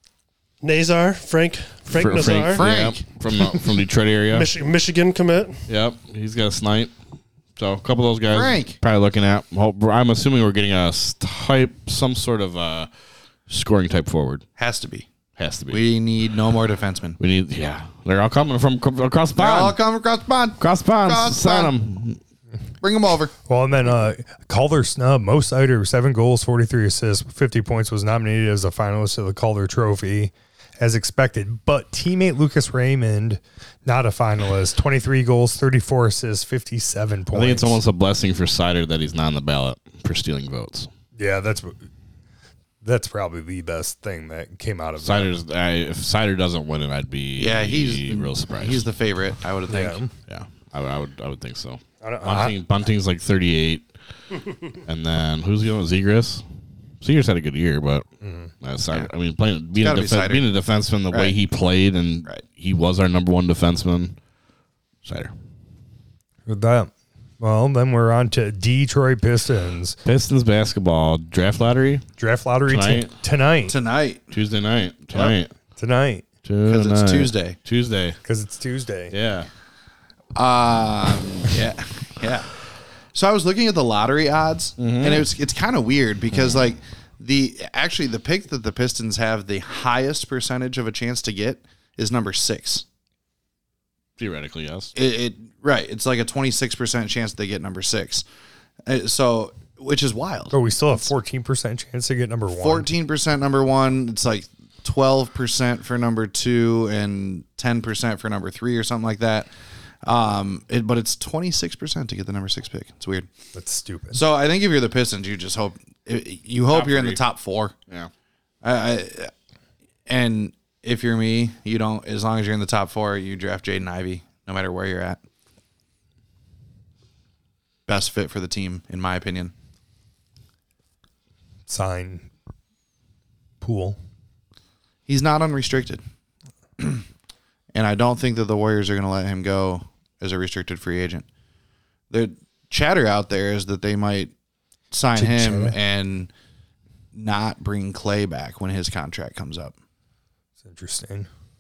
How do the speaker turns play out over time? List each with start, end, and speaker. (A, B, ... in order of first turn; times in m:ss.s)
0:00.6-0:02.7 A
0:01.9-0:04.5 B
0:02.5-0:03.0 C
0:04.3-0:05.6 A
0:05.7-0:06.9 B
0:07.6-0:12.9 B
0:08.3-0:08.8 C
0:13.5-0:14.4 B
0:14.6-0:15.1 C
0:15.4-0:15.8 B
0:15.7-0:17.2 C
0:17.2-0:19.8 B
0:19.4-0:21.7 C
0:20.6-0:22.2 B
0:22.8-0:23.3 C
0:23.4-0:37.8 D
0:37.3-0:40.9 B
0:41.2-0:41.8 D
0:42.8-0:45.3 D
0:45.0-0:48.8 B
0:47.4-0:50.0 C
0:49.7-0:50.1 D
0:50.3-0:53.9 B
0:52.0-0:52.6 D
0:54.8-0:56.4 B
0:57.0-0:58.0 B
0:58.2-0:58.5 D
0:58.6-1:04.2 B
0:59.8-1:00.5 C
1:01.1-1:01.4 C
1:05.0-1:05.3 B
1:06.5-1:10.0 D
1:10.0-1:12.0 B
1:12.2-1:13.7 D
1:12.7-1:13.1 B
1:13.7-1:14.3 C
1:14.3-1:15.5 B
1:15.8-1:16.2 D
1:16.4-1:18.2 B
1:16.7-1:17.6 C
1:18.2-1:19.1 D
1:19.1-1:19.5 B
1:20.4-1:22.5 C
1:23.1-1:32.8 C
1:24.8-1:25.3 B
1:34.2-1:34.9 B
1:35.0-1:38.2 C
1:38.9-1:40.6 C
1:40.5-1:42.9 D
1:42.5-1:49.5 C
1:50.0-1:53.3 C
1:53.6-1:54.2 D
1:54.1-1:57.7 C
1:56.7-1:57.2 B
1:58.6-1:59.3 C
2:00.1-2:05.2 C
2:07.9-2:09.5 C
2:11.7-2:12.3 D
2:13.6-2:14.0 D
2:15.1-2:16.0 C
2:17.7-2:21.3 C
2:22.1-2:24.3 C
2:24.9-2:26.3 C
2:25.2-2:25.8 D
2:27.1-2:29.8 C
2:30.6-2:31.3 D